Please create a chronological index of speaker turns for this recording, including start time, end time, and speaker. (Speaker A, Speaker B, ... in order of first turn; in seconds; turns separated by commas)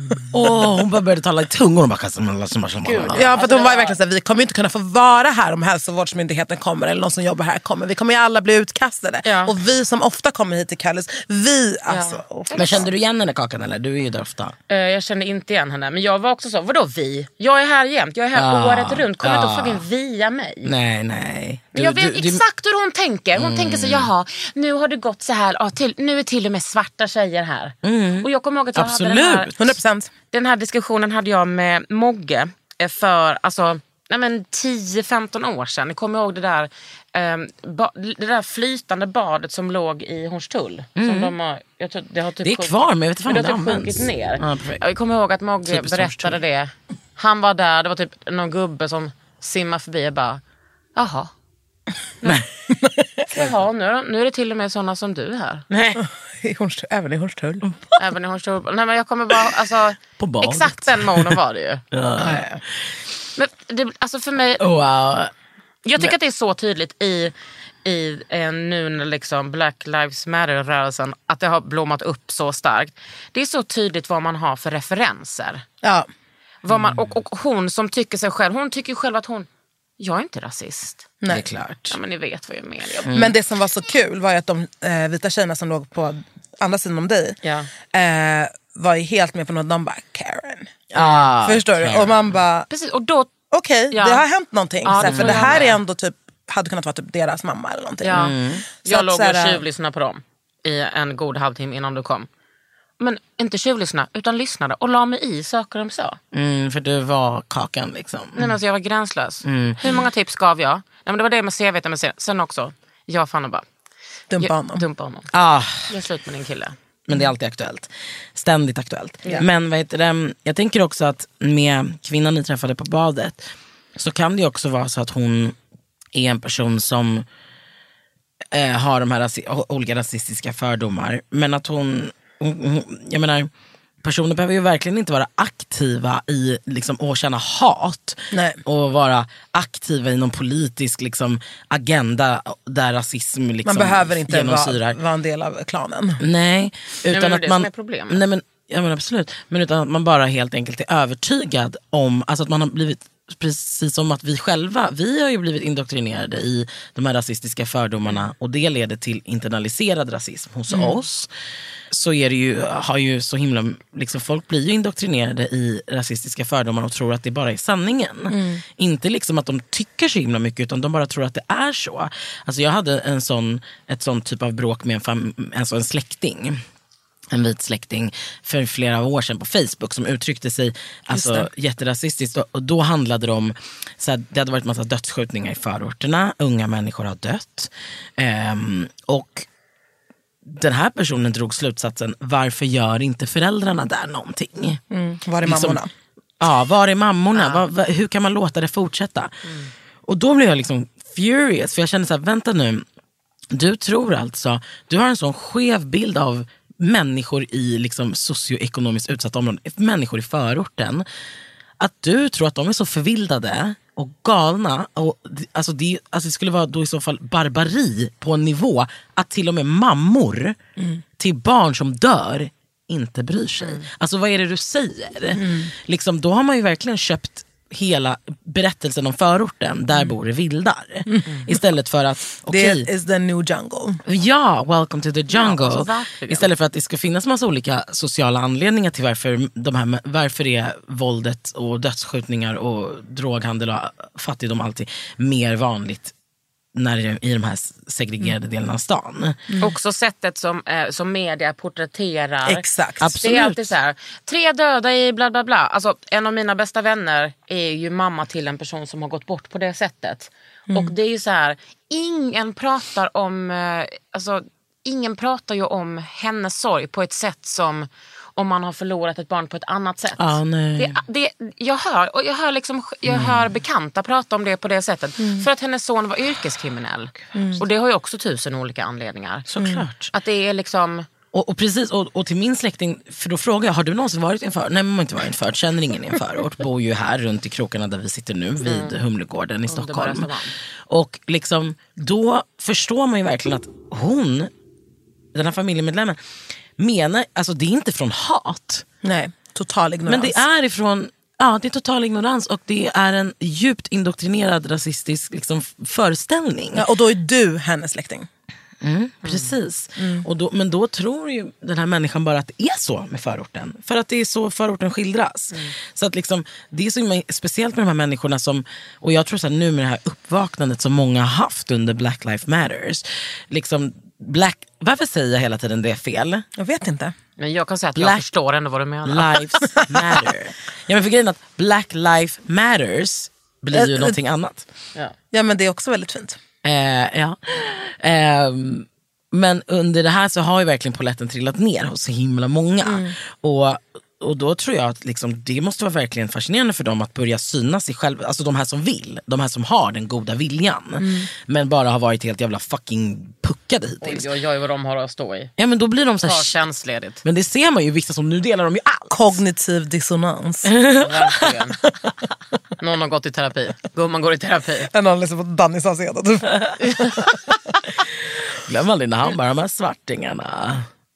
Speaker A: 0.1-0.6, Speaker B: 0.3-3.3, Speaker C: 2.8-4.0, Speaker A: 3.1-12.9, Speaker C: 9.2-9.5, Speaker C: 11.9-12.9, Speaker B: 12.6-14.6, Speaker C: 14.7-20.7, Speaker B: 18.4-19.8, Speaker B: 20.6-22.4, Speaker C: 21.8-29.5, Speaker B: 23.4-24.1, Speaker B: 27.8-29.7, Speaker A: 29.6-30.1, Speaker C: 30.3-50.4, Speaker B: 41.0-41.3, Speaker B: 42.4-44.8, Speaker B: 45.7-46.4, Speaker C: 51.0-51.3, Speaker A: 52.7-53.2, Speaker C: 53.3-55.6, Speaker B: 55.7-56.0, Speaker A: 56.0-57.7, Speaker C: 58.0-61.9, Speaker B: 60.2-61.4, Speaker B: 61.9-62.6, Speaker A: 62.2-62.6, Speaker C: 63.4-64.6, Speaker B: 64.6-65.3, Speaker C: 65.8-67.3, Speaker C: 67.8-75.6, Speaker C: 76.6-79.5, Speaker B: 76.7-77.0, Speaker C: 80.0-81.1, Speaker A: 81.2-81.5, Speaker B: 81.3-82.0, Speaker C: 81.9-83.1, Speaker B: 83.1-83.3, Speaker A: 83.1-87.4, Speaker C: 87.4-87.7, Speaker A: 87.9-90.8, Speaker B: 90.9-92.4, Speaker C: 91.0-91.3, Speaker A: 91.4-92.7, Speaker C: 92.7-93.3, Speaker A: 93.5-98.2, Speaker C: 93.9-94.2, Speaker C: 94.8-95.8, Speaker B: 95.0-95.7, Speaker C: 98.0-102.3, Speaker B: 98.1-98.7, Speaker A: 98.8-99.6, Speaker C: 103.0-106.2, Speaker B: 106.3-108.6, Speaker C: 108.4-113.7, Speaker B: 109.4-109.8, Speaker A: 114.3-114.8, Speaker C: 114.4-115.3, Speaker B: 115.3-115.9, Speaker C: 115.9-116.8, Speaker B: 117.1-125.6, Speaker B: 126.1-127.2, Speaker B: 128.5-133.5, Speaker B: 134.0-145.0, Speaker A: 138.3-138.6, Speaker A: 143.7-146.2, Speaker B: 146.2-161.3, Speaker C: 147.1-148.2, Speaker A: 160.7-161.0, Speaker B: 161.9-176.6, Speaker A: 168.3-168.6, Speaker B: 177.3-189.5, Speaker A: 181.1-181.5, Speaker B: 190.5-194.8, Speaker A: 194.9-195.9, Speaker B: 195.4-195.8, Speaker B: 196.4-199.3, Speaker C: 197.3-197.6, Speaker B: 200.1-202.8, Speaker B: 203.5-211.1, Speaker B: 211.8-220.6, Speaker B: 221.2-232.9, Speaker A: 225.3-225.7, Speaker A: 231.1-231.5, Speaker A: 232.5-234.0, Speaker B: 234.1-246.1, Speaker C: 235.3-236.5, Speaker B: 246.8-249.4, Speaker C: 249.6-252.6, Speaker A: 252.4-253.1, Speaker B: 253.0-253.7, Speaker C: 253.2-279.5, Speaker B: 270.2-271.0, Speaker B: 273.1-273.4, Speaker A: 275.2-275.5, Speaker A: 277.4-277.6, Speaker B: 279.5-280.1, Speaker C: 280.1-281.1, Speaker B: 281.3-290.3, Speaker C: 288.6-288.9, Speaker C: 289.7-290.5, Speaker B: 290.9-294.5, Speaker B: 295.4-296.2, Speaker B: 296.8-298.9, Speaker A: 299.0-300.4, Speaker B: 300.1-306.9, Speaker A: 306.8-308.3, Speaker B: 308.8-326.5, Speaker C: 309.2-309.5, Speaker A: 310.0-310.3, Speaker A: 326.6-327.1, Speaker C: 327.4-329.4, Speaker B: 328.0-328.2, Speaker B: 329.1-334.7, Speaker A: 329.8-330.2, Speaker A: 333.7-334.2, Speaker A: 335.3-336.4, Speaker B: 336.6-354.3, Speaker A: 342.8-343.1, Speaker A: 351.0-351.3, Speaker C: 354.0-355.5, Speaker B: 355.6-356.6, Speaker C: 356.2-357.2, Speaker B: 357.2-359.4, Speaker A: 359.1-360.7, Speaker B: 360.7-361.2, Speaker C: 361.0-361.8, Speaker C: 362.8-364.9, Speaker A: 364.9-367.4, Speaker B: 368.6-370.9